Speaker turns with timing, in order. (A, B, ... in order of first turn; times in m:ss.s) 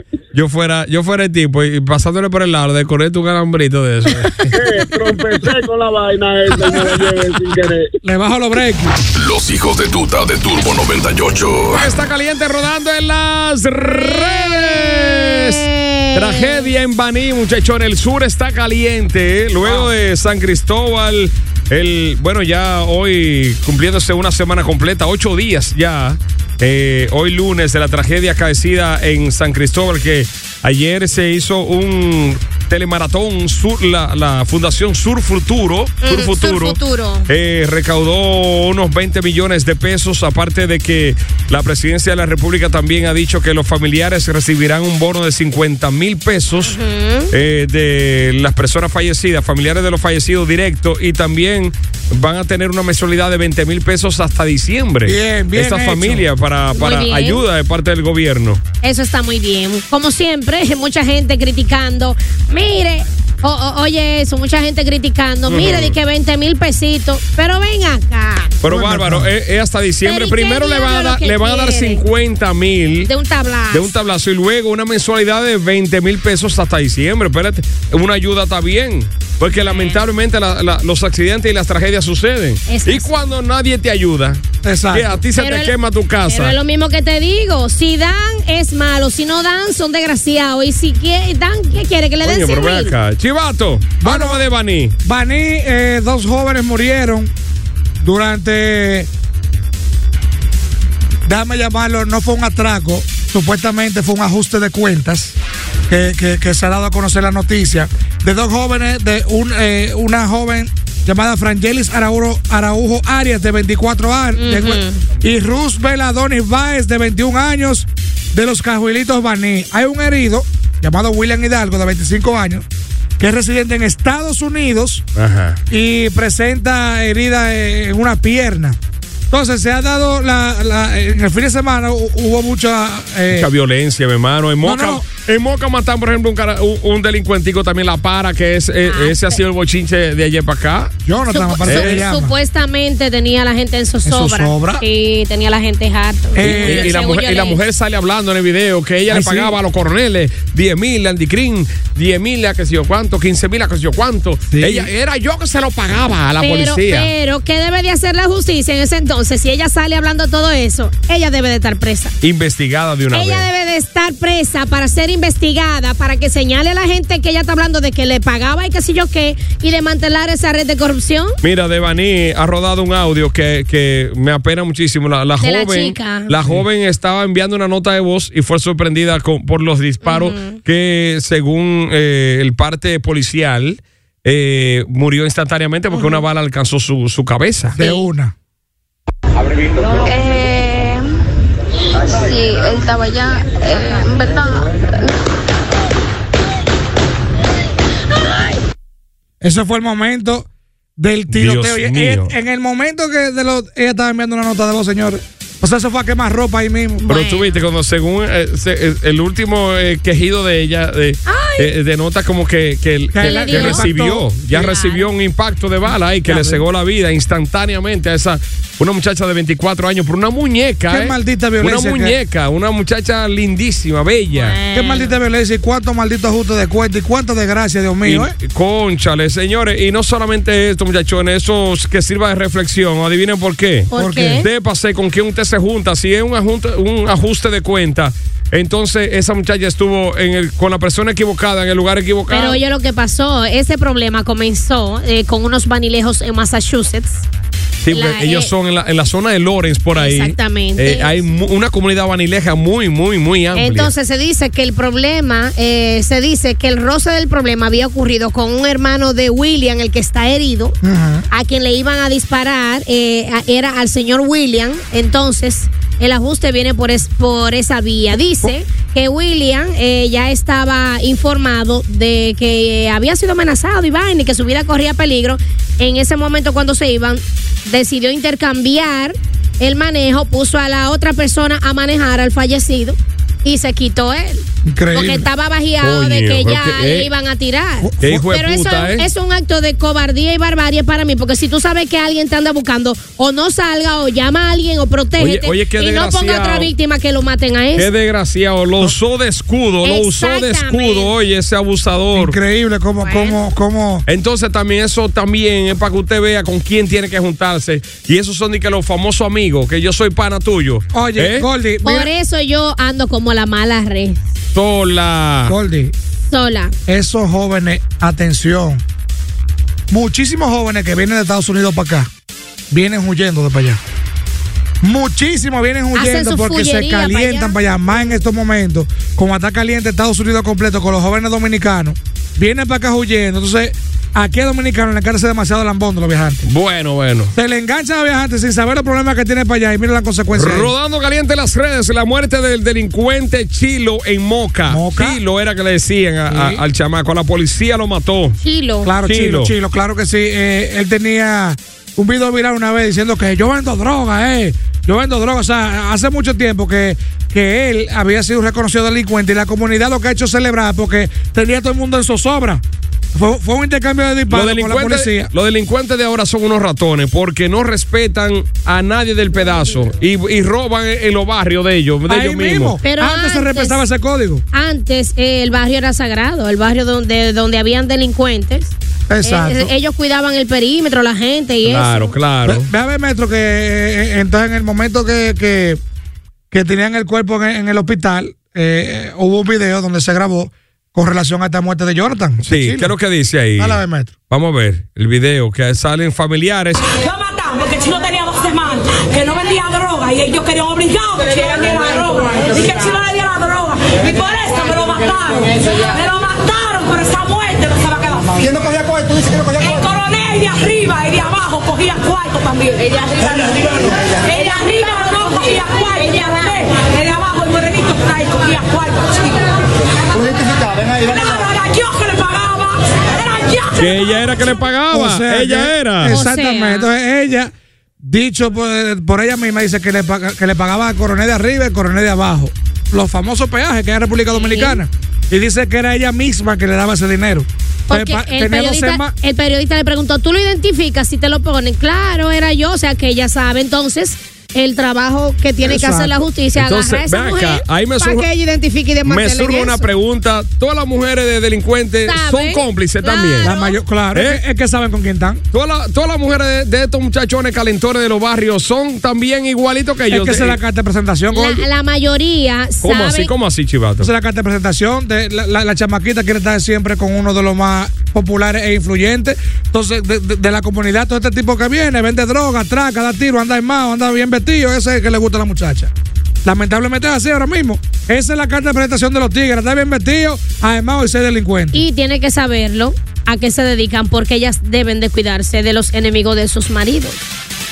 0:00.3-0:04.5 A
0:04.5-0:07.9 B
0:08.0-0:09.0 C
0:09.1-0:11.9 D
0:11.8-0:46.8 A
0:14.0-0:16.7 E
0:36.0-0:37.3 E
0:46.6-0:47.3 E
0:47.3-0:58.6 A
0:55.0-0:56.2 C
0:56.7-0:57.4 E
0:58.8-1:08.6 E
1:05.5-1:05.9 A
1:08.6-1:13.1 A
1:08.6-1:09.3 C
1:10.0-1:12.0 E
1:13.0-1:13.9 E
1:13.7-1:26.5 A
1:19.6-1:20.0 E
1:22.6-1:23.1 E
1:24.6-1:25.2 C
1:25.4-1:25.7 E
1:26.2-1:32.9 E
1:32.2-1:34.9 A
1:34.0-1:34.4 C
1:35.0-1:37.3 C
1:38.0-1:39.1 C
1:41.2-1:45.4 C
1:45.9-2:02.6 C
1:54.4-1:55.0 E
2:03.2-2:05.0 C
2:05.2-2:05.6 A
2:05.7-2:08.8 C
2:09.3-2:13.5 C
2:13.3-2:20.9 A
2:14.6-2:15.0 C
2:18.9-2:19.4 E
2:21.0-2:22.3 C
2:21.3-2:27.6 E
2:21.6-2:22.0 A
2:24.0-2:24.8 C
2:26.3-2:26.9 C
2:26.4-2:37.1 A
2:29.1-2:29.5 C
2:34.5-2:34.9 C
2:36.4-2:42.1 E
2:42.2-2:43.5 A
2:43.1-2:51.3 E
2:51.4-3:07.8 A
2:55.4-2:56.3 E
3:00.0-3:00.6 E
3:05.9-3:06.2 C
3:07.7-3:08.3 C
3:09.9-3:11.1 F
3:12.0-3:15.1 F
3:19.4-3:27.1 C
3:21.3-3:22.3 A
3:27.0-3:27.6 E
3:27.1-3:44.6 A
3:31.2-3:31.7 E
3:33.1-3:34.3 C
3:33.2-3:33.9 E
3:34.5-3:35.1 E
3:36.2-3:36.6 C
3:40.9-3:42.1 C
3:44.3-3:45.1 E
3:44.7-3:48.3 C
3:48.0-4:02.6 A
3:53.9-3:54.4 E
3:53.9-3:54.4 C
4:02.3-4:07.2 E
4:07.8-4:13.9 A
4:07.9-4:08.5 E
4:09.9-4:11.2 E
4:13.5-4:20.8 E
4:20.8-4:21.2 C
4:21.3-4:57.9 E
4:44.6-4:45.3 C
4:45.8-4:47.1 A
4:47.8-4:48.2 C
4:48.0-4:49.0 A
4:55.2-4:56.7 A
4:57.7-5:02.4 A
4:59.8-5:01.1 E
5:02.1-5:04.0 C
5:03.0-5:03.4 E
5:04.1-5:11.4 A
5:10.9-5:12.1 C
5:11.8-5:14.2 E
5:14.5-5:15.5 A
5:15.5-5:15.9 C
5:16.2-5:16.7 E
5:16.9-5:18.8 C
5:19.9-5:22.1 C
5:22.7-5:23.8 C
5:24.8-5:36.4 C
5:25.9-5:27.6 E
5:36.4-5:37.3 A
5:37.3-5:40.7 C
5:40.3-5:48.4 A
5:44.7-5:45.2 C
5:46.3-5:46.6 C
5:48.4-5:48.9 E
5:48.8-6:05.3 C
5:49.0-5:49.5 A
6:04.3-6:12.8 A
6:12.1-6:14.4 C
6:12.8-6:13.8 E
6:14.5-6:22.1 E
6:19.1-6:19.7 C
6:21.6-6:22.7 A
6:22.4-6:25.8 C
6:26.5-6:32.9 C
6:32.4-6:33.8 A
6:33.6-6:34.1 C
6:34.3-6:36.8 A
6:36.9-6:48.4 G
6:49.6-6:53.4 G
6:54.2-6:59.4 G
7:01.0-7:04.2 G
7:03.7-7:06.2 A
7:04.9-7:19.1 C
7:06.1-7:06.9 E
7:14.3-7:14.8 E
7:17.9-7:29.8 E
7:25.6-7:26.1 C
7:26.6-7:28.2 A
7:29.0-7:33.5 A
7:32.1-7:33.7 E
7:33.4-7:35.4 C
7:34.1-7:34.4 A
7:35.5-7:40.6 A
7:40.1-7:41.6 C
7:41.3-7:43.3 E
7:42.8-7:44.1 A
7:44.0-7:55.9 C
7:56.4-8:01.8 C
8:01.7-8:07.2 E